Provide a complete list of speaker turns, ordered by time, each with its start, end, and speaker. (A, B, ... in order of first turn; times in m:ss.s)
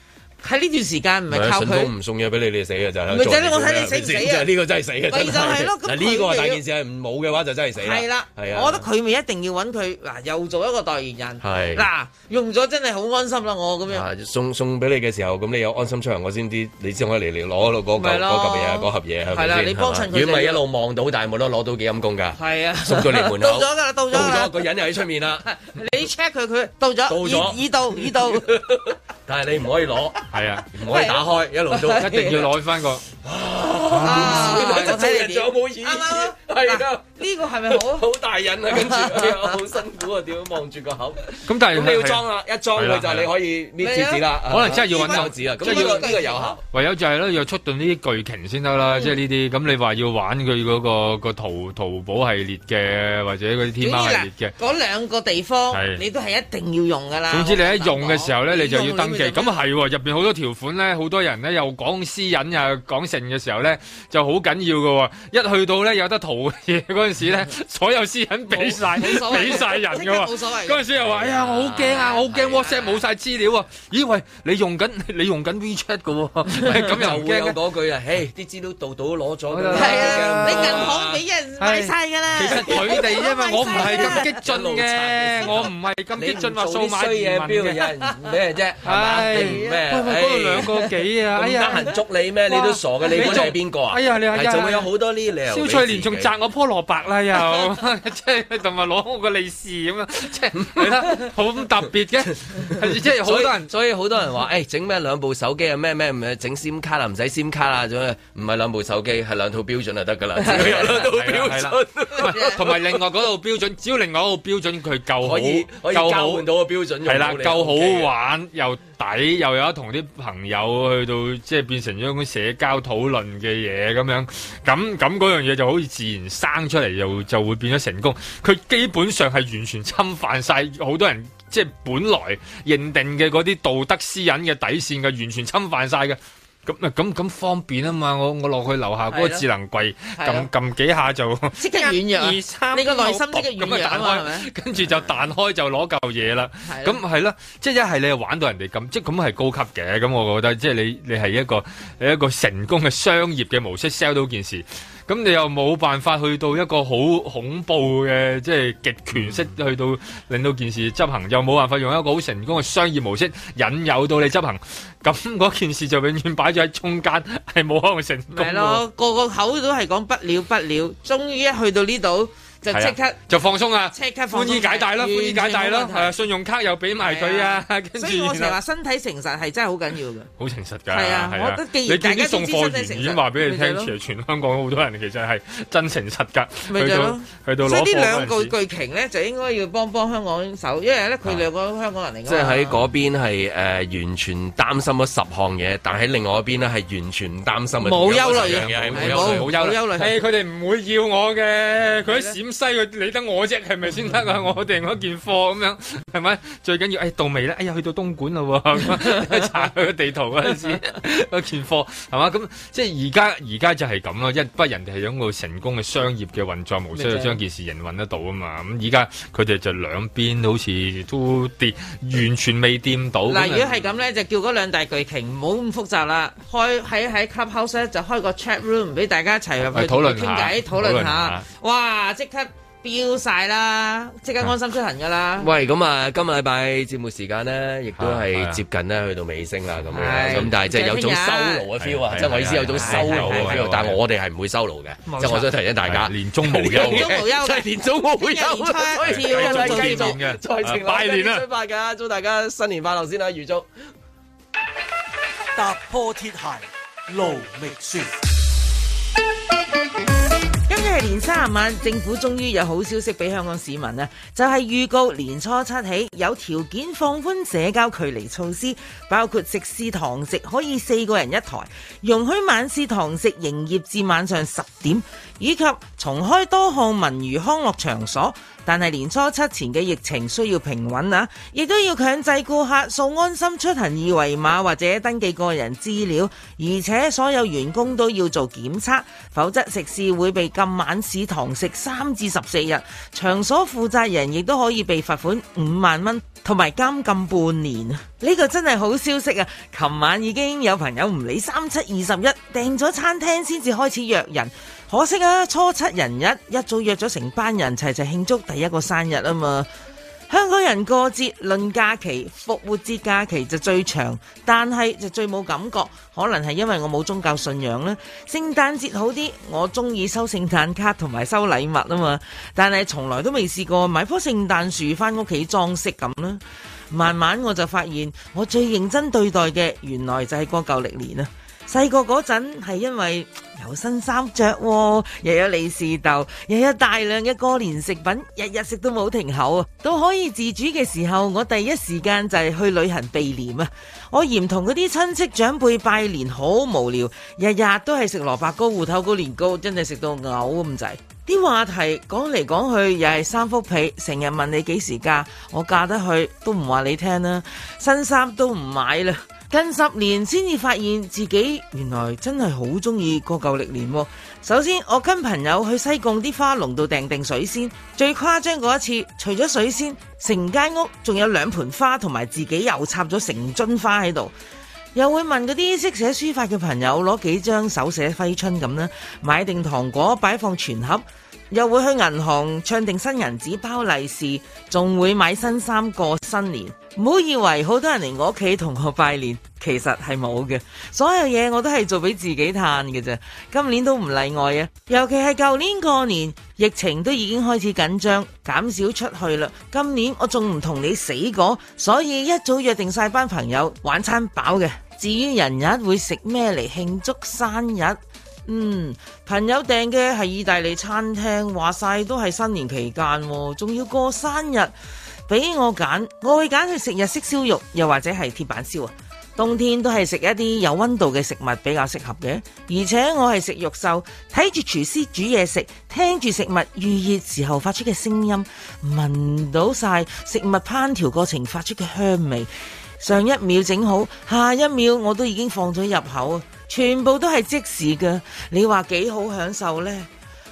0:00.4-0:01.9 A
0:01.3-0:08.9 B
0:03.1-0:04.5 A
0:05.1-0:06.6 A
0:07.8-0:14.1 A
0:11.4-0:11.9 B
0:13.9-0:25.4 B
0:18.0-0:20.6 A
0:22.4-0:24.7 A
0:25.4-0:28.6 A
0:27.1-0:32.5 B
0:30.3-0:30.7 C
0:30.8-0:32.5 A
0:32.0-0:33.0 C
0:33.2-0:37.0 B
0:33.9-0:34.9 C
0:34.0-0:38.1 A
0:37.6-0:46.6 B
0:38.8-0:39.3 A
0:41.4-0:43.3 C
0:43.8-0:46.6 A
0:44.5-0:54.5 C
0:48.8-0:49.1 A
0:53.8-0:59.6 A
0:55.7-0:56.0 C
0:57.3-1:17.6 C
1:08.5-1:10.8 A
1:11.0-1:12.8 B
1:16.7-1:21.2 B
1:19.5-1:20.9 C
1:19.7-1:24.2 A
1:21.6-1:27.8 C
1:22.5-1:23.0 B
1:23.6-1:30.7 B
1:27.8-1:28.2 A
1:28.8-1:31.9 C
1:29.3-1:29.8 A
1:31.3-1:36.3 B
1:32.5-1:34.9 C
1:33.2-1:33.5 A
1:35.5-1:43.7 C
1:40.6-1:41.1 B
1:42.6-1:53.0 B
1:50.5-1:56.5 C
1:52.1-1:52.6 A
1:55.2-1:58.1 B
1:57.0-2:48.8 C
2:19.1-2:19.4 A
2:20.1-2:20.5 A
2:21.6-2:24.5 A
2:26.6-2:27.0 A
2:48.3-2:53.2 A
2:52.7-2:58.6 C
2:53.9-2:56.1 A
2:57.0-3:00.3 A
3:00.4-3:08.5 C
3:00.9-3:03.9 A
3:06.7-3:12.8 A
3:12.3-3:19.5 B
3:17.8-3:20.1 A
3:18.0-3:43.7 C
3:22.0-3:22.3 A
3:36.9-3:37.4 A
3:43.3-3:55.5 A
3:49.7-3:51.4 C
3:55.4-4:13.7 B
3:58.0-3:58.6 C
3:59.9-4:01.7 A
4:00.0-4:00.5 C
4:01.8-4:04.0 C
4:02.7-4:03.6 A
4:05.1-4:05.5 A
4:05.8-4:07.2 C
4:06.7-4:10.2 A
4:09.0-4:11.4 C
4:15.6-4:16.6 D
4:17.1-4:18.1 D
4:20.7-5:09.7 A
5:10.3-6:14.3 A
6:14.9-6:54.7 A
6:55.3-7:12.5 A
7:13.0-7:20.1 A